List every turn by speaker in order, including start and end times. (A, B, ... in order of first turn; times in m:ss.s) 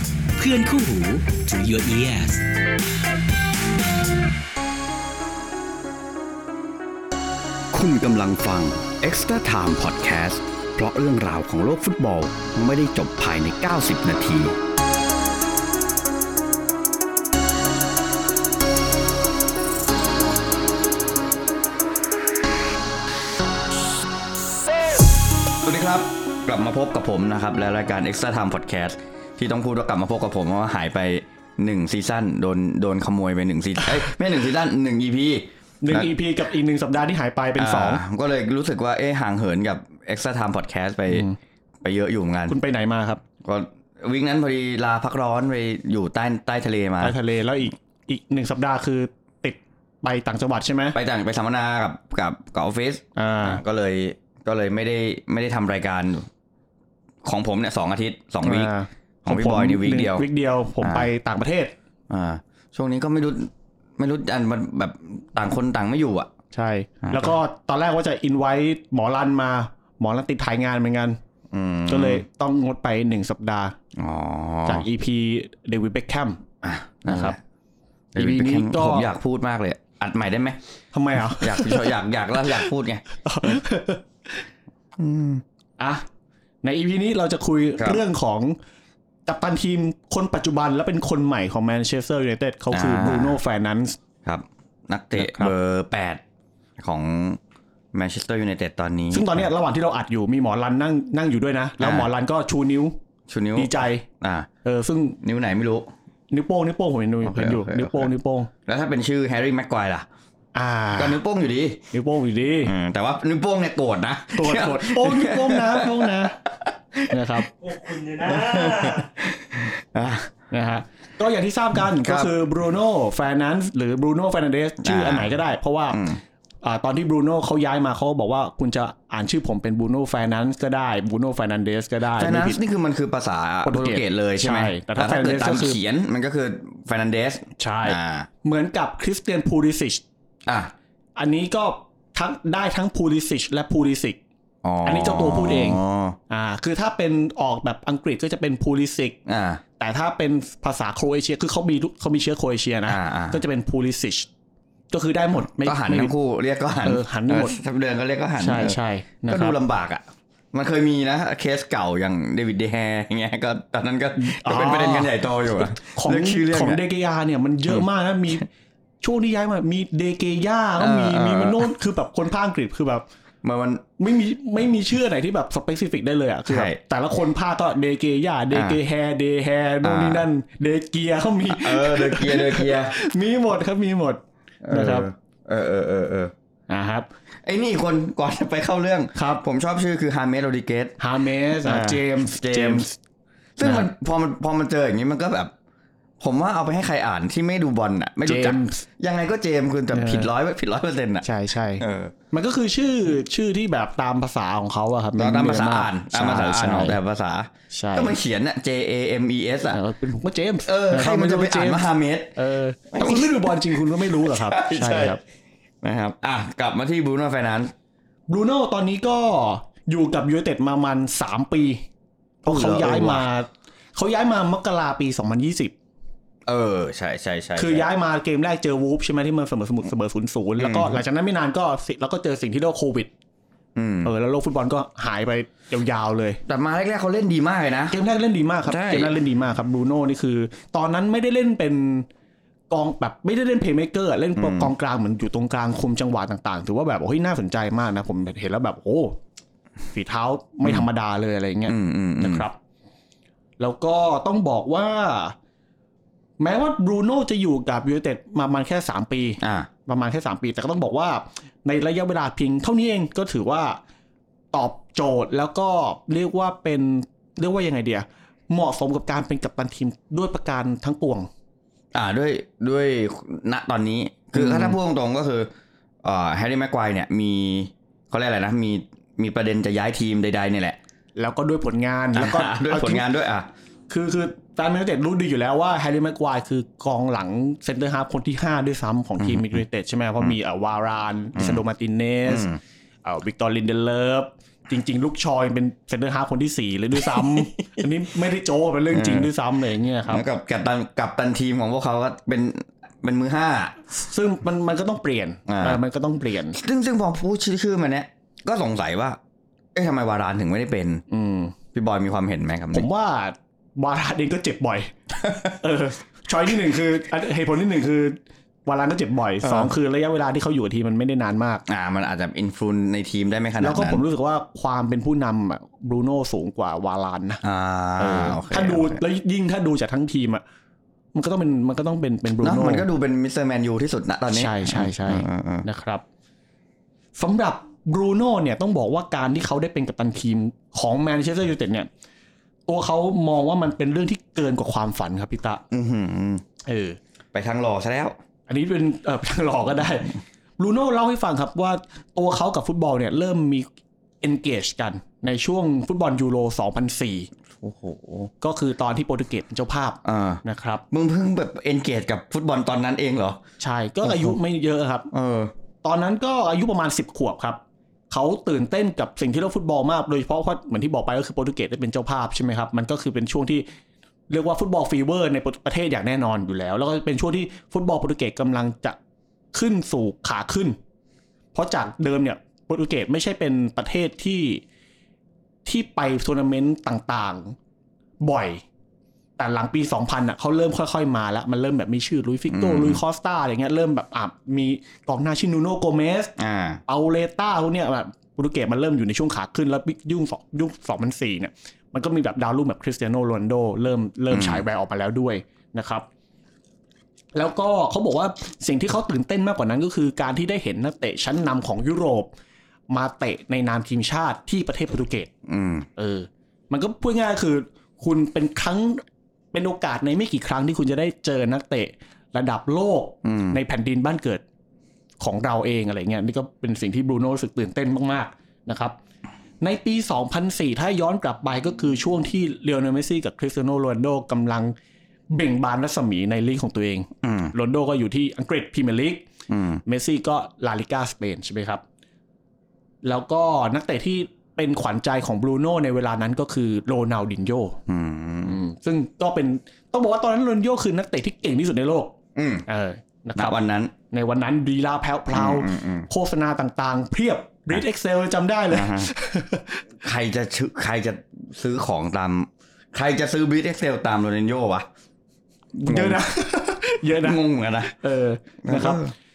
0:00.4-0:02.5 A
0:07.7-0:14.6 B
0:25.6-0:36.1 B
0:35.8-0:38.0 C
0:37.6-0:41.3 B
0:41.1-0:41.4 C
0:41.8-0:42.6 B
0:42.5-0:43.2 C
0:43.4-0:47.2 B
0:47.0-0:51.0 C
0:50.9-0:56.3 B
0:53.2-0:53.6 C
0:57.2-0:58.7 B
0:58.4-1:01.7 C
0:59.2-1:00.2 B
1:00.8-1:01.1 B
1:02.1-1:06.3 B
1:06.5-1:11.2 C
1:07.0-1:07.4 B
1:11.5-1:12.2 B
1:11.9-1:13.8 C
1:14.0-1:14.8 B
1:14.7-1:16.4 C
1:16.6-1:17.4 B
1:17.1-1:17.4 C
1:18.1-1:20.6 B
1:18.2-1:19.1 C
1:20.9-1:21.9 C
1:21.2-1:23.5 B
1:23.2-1:24.0 C
1:25.0-1:25.4 B
1:25.8-1:26.0 C
1:26.6-1:28.6 C
1:29.3-1:34.0 C
1:32.7-1:33.4 B
1:34.2-1:36.2 B
1:35.2-1:35.5 C
1:36.8-1:37.4 B
1:37.9-1:39.4 B
1:39.1-1:43.0 C
1:41.8-1:42.1 B
1:43.3-1:44.5 B
1:43.6-1:44.0 C
1:44.6-1:45.2 C
1:45.2-1:45.9 B
1:46.3-1:48.5 C
1:47.2-1:48.1 B
1:48.7-1:50.1 B
1:50.6-1:51.2 C
1:51.0-1:51.8 B
1:51.9-1:52.7 C
1:52.6-2:00.3 B
1:54.3-1:56.4 C
1:57.1-1:57.5 C
2:00.5-2:06.0 C
2:01.9-2:02.3 B
2:04.8-2:05.3 B
2:05.9-2:06.2 B
2:06.6-2:12.6 C
2:12.2-2:18.3 B
2:13.6-2:15.8 C
2:17.6-2:20.0 C
2:20.5-2:20.7 B
2:21.2-2:24.2 C
2:24.6-2:26.2 B
2:24.8-2:29.2 C
2:29.3-2:29.6 B
2:29.8-2:34.3 C
2:32.9-2:33.4 B
2:34.9-2:36.2 C
2:35.5-2:38.8 B
2:36.8-2:37.6 C
2:38.4-2:39.6 C
2:39.3-2:46.8 B
2:44.2-2:48.5 C
2:49.0-2:53.0 C
2:50.8-2:51.7 B
2:53.4-2:53.8 B
2:54.0-3:05.1 C
2:56.5-2:56.8 B
2:58.5-2:58.8 B
2:59.8-3:00.3 B
3:01.5-3:03.0 B
3:04.6-3:06.3 B
3:06.7-3:07.1 C
3:07.4-3:11.0 B
3:09.2-3:09.4 C
3:11.0-3:13.0 C
3:11.5-3:12.9 B
3:13.6-3:15.5 B
3:13.6-3:13.9 C
3:16.2-3:21.2 B
3:18.2-3:18.8 C
3:19.9-3:20.3 C
3:21.2-3:27.0 C
3:21.8-3:22.1 B
3:25.2-3:29.8 B
3:27.7-3:28.2 C
3:29.7-3:35.2 C
3:30.6-3:32.3 B
3:32.9-3:35.2 B
3:35.8-3:37.7 B
3:38.3-3:41.8 C
3:42.4-3:43.3 B
3:42.4-3:45.7 C
3:46.5-3:47.9 B
3:47.6-3:53.1 C
3:50.6-3:51.0 B
3:53.8-3:54.1 B
3:54.0-3:56.4 C
3:56.5-3:58.0 B
3:57.9-4:02.1 C
3:58.7-3:59.2 B
4:02.7-4:09.2 C
4:04.4-4:04.7 B
4:09.9-4:12.6 C
4:11.7-4:12.5 B
4:13.6-4:15.4 C
4:16.4-4:23.8 C
4:19.4-4:19.7 B
4:24.5-4:31.3 C
4:31.9-4:35.5 B
4:34.4-4:34.8 C
4:36.0-4:40.8 B
4:41.2-4:43.1 C
4:42.2-4:43.5 B
4:43.9-4:52.5 C
4:49.2-4:49.6 B
4:51.4-4:51.6 B
4:52.3-4:52.6 B
4:53.0-5:00.2 C
4:57.0-4:57.7 B
4:58.9-4:59.3 B
5:00.1-5:03.8 B
5:04.0-5:06.6 C
5:05.5-5:05.8 B
5:06.5-5:09.2 B
5:09.8-5:11.0 B
5:11.1-5:11.6 C
5:11.7-5:12.9 B
5:12.7-5:14.9 C
5:15.5-5:21.6 C
5:19.4-5:19.7 B
5:21.7-5:24.0 B
5:23.6-5:27.4 C
5:27.4-5:29.0 B
5:28.0-5:30.4 C
5:31.2-5:32.9 C
5:32.4-5:35.7 B
5:34.3-5:36.0 C
5:37.2-5:41.9 C
5:42.7-5:45.6 C
5:45.7-5:46.4 B
5:46.6-5:47.0 C
5:47.3-5:48.2 B
5:48.5-5:53.7 C
5:54.2-5:57.3 C
5:57.6-5:58.3 B
5:58.4-6:00.8 C
6:00.0-6:03.4 B
6:03.6-6:05.1 C
6:04.0-6:04.4 B
6:05.1-6:05.5 B
6:05.8-6:07.6 C
6:08.1-6:13.7 C
6:14.3-6:19.0 C
6:19.5-6:20.8 C
6:21.5-6:24.6 C
6:25.6-6:27.6 C
6:28.2-6:28.6 C
6:29.4-6:36.3 C
6:32.5-6:33.0 B
6:36.4-6:36.8 B
6:36.9-6:46.0 C
6:44.3-6:44.6 B
6:47.4-6:52.3 C
6:52.9-6:55.3 C
6:55.5-6:55.9 B
6:56.0-7:04.4 C
7:03.2-7:03.6 B
7:05.2-7:09.0 C
7:09.6-7:14.8 C
7:15.3-7:19.3 C
7:17.2-7:17.5 B
7:19.5-7:19.8 B
7:19.9-7:21.8 C
7:23.0-7:27.8 C
7:27.9-7:28.6 B
7:28.4-7:32.1 C
7:32.4-7:32.6 B
7:32.7-7:33.6 C
7:33.4-7:33.9 B
7:34.1-7:39.8 C
7:35.3-7:36.1 B
7:38.7-7:39.1 B
7:40.0-7:44.9 B
7:45.8-7:49.0 C
7:45.9-7:46.2 B
7:47.1-7:47.9 B
7:48.6-7:49.1 B